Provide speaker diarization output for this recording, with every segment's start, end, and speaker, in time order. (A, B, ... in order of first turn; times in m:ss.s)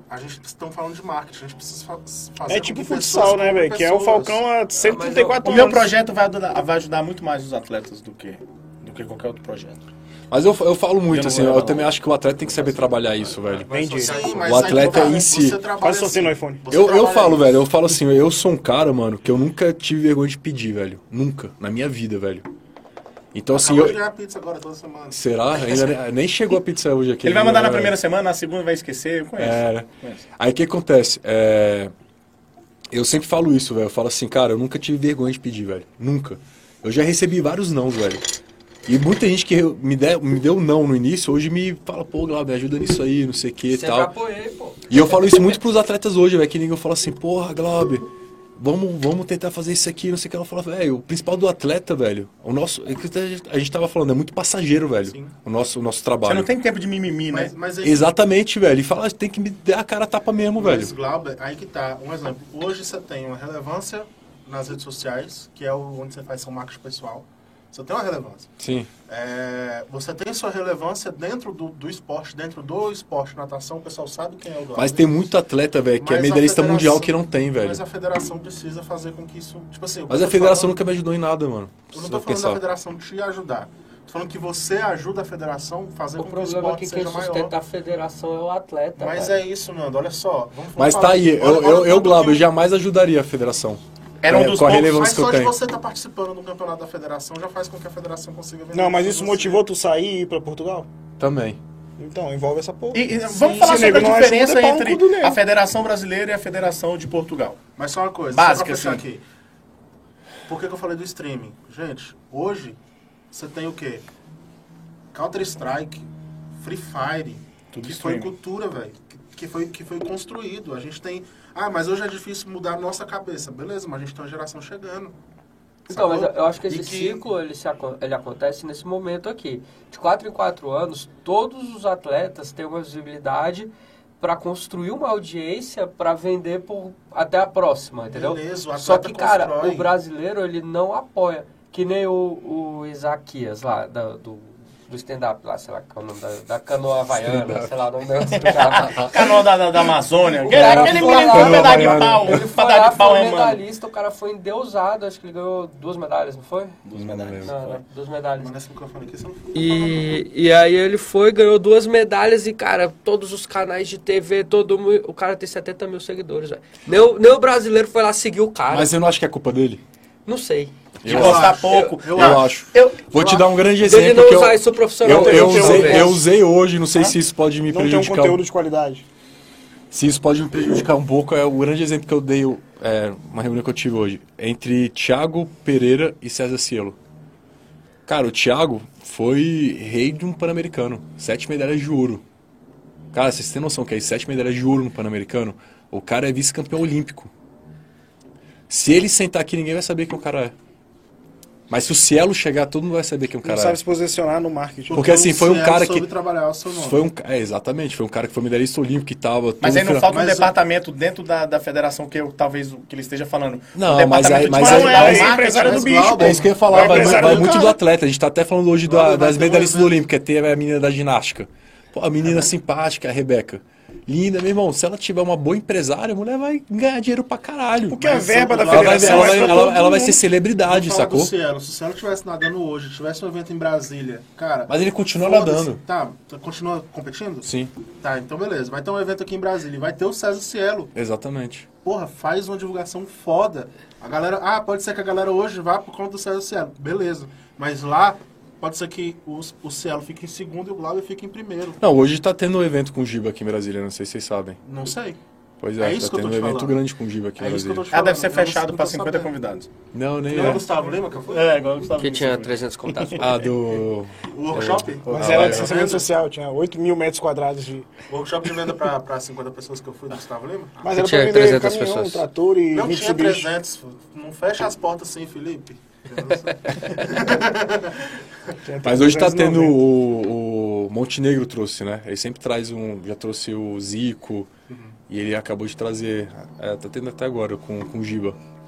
0:00.1-0:04.4 A
0:02.5-0:05.9 B
0:04.8-0:05.6 C
0:05.4-0:09.8 D
0:10.3-0:13.7 E
0:11.1-0:12.0 D
0:13.4-0:14.9 C
0:13.7-0:14.4 B
0:13.9-0:17.6 A
0:14.4-0:15.6 E
0:15.8-0:16.6 B
0:16.7-0:22.4 E
0:23.3-0:24.0 E
0:23.5-0:25.2 A
0:25.1-0:28.0 E
0:27.2-0:30.2 D
0:29.4-0:31.9 E
0:32.9-0:38.2 E
0:38.9-0:44.1 E
0:43.7-0:45.3 C
0:44.9-0:56.5 E
0:55.1-0:55.3 A
0:56.2-0:57.5 D
0:57.3-0:58.1 A
0:57.8-1:00.9 E
1:00.6-1:08.5 A
1:08.6-1:08.9 E
1:09.0-1:15.2 A
1:14.7-1:17.8 E
1:16.0-1:20.8 A
1:20.1-1:22.6 E
1:21.9-1:27.5 A
1:26.2-1:29.4 C
1:29.0-1:32.4 A
1:30.8-1:35.6 E
1:34.2-1:35.0 D
1:34.8-1:39.6 A
1:38.7-1:40.9 B
1:41.2-1:41.6 E
1:42.0-1:45.4 B
1:42.9-1:47.6 D
1:43.6-1:44.0 A
1:47.8-1:49.2 A
1:48.3-1:49.0 D
1:50.5-1:52.8 A
1:53.3-1:54.0 A
1:55.1-2:05.1 A
1:57.7-1:58.3 D
2:05.9-2:07.2 A
2:05.9-2:29.3 C
2:18.1-2:19.9 A
2:27.2-2:27.7 E
2:28.3-2:33.6 D
2:28.8-2:29.1 E
2:30.4-2:36.8 C
2:30.5-2:32.4 E
2:36.8-2:37.8 D
2:36.9-2:37.6 E
2:37.4-2:38.5 C
2:38.4-2:40.1 A
2:39.5-2:48.9 C
2:48.7-2:49.8 E
2:50.3-2:50.7 C
2:51.0-2:51.6 E
2:51.0-2:53.4 D
2:51.0-2:52.5 A
2:51.2-2:52.0 C
2:52.1-2:58.4 E
2:53.8-2:56.2 C
2:55.0-2:56.2 B
2:57.7-2:59.0 B
2:59.9-3:07.0 E
3:08.0-3:12.2 E
3:13.1-3:17.3 E
3:18.7-3:20.6 E
3:21.7-3:23.8 E
3:23.4-3:25.0 B
3:24.9-3:27.0 A
3:24.9-3:26.1 E
3:26.7-3:30.1 E
3:29.6-3:36.3 D
3:30.1-3:30.5 A
3:33.7-3:35.3 E
3:34.4-3:37.7 B
3:34.8-3:37.8 A
3:36.2-3:48.1 E
3:38.9-3:40.0 A
3:47.9-3:50.2 B
3:48.0-3:49.8 A
3:48.6-3:51.3 E
3:50.6-3:57.5 A
3:54.7-3:55.8 E
3:57.4-3:57.7 E
3:58.0-4:00.9 A
4:00.9-4:01.7 E
4:01.8-4:11.8 A
4:11.8-4:14.6 E
4:14.6-4:15.2 A
4:15.6-4:17.8 E
4:15.8-4:16.8 A
4:17.4-4:19.3 A
4:17.9-4:19.7 D
4:19.9-4:20.6 E
4:20.3-4:21.6 A
4:20.4-4:20.6 D
4:21.3-4:23.4 D
4:22.0-4:23.4 C
4:23.2-4:25.9 E
4:24.3-4:26.0 A
4:25.1-4:27.9 B
4:28.1-4:30.8 A
4:30.8-4:33.5 B
4:30.9-4:32.2 C
4:32.7-4:38.6 A
4:36.7-4:37.1 C
4:38.6-4:39.8 B
4:38.8-4:44.5 E
4:44.7-4:45.0 A
4:45.1-4:48.4 E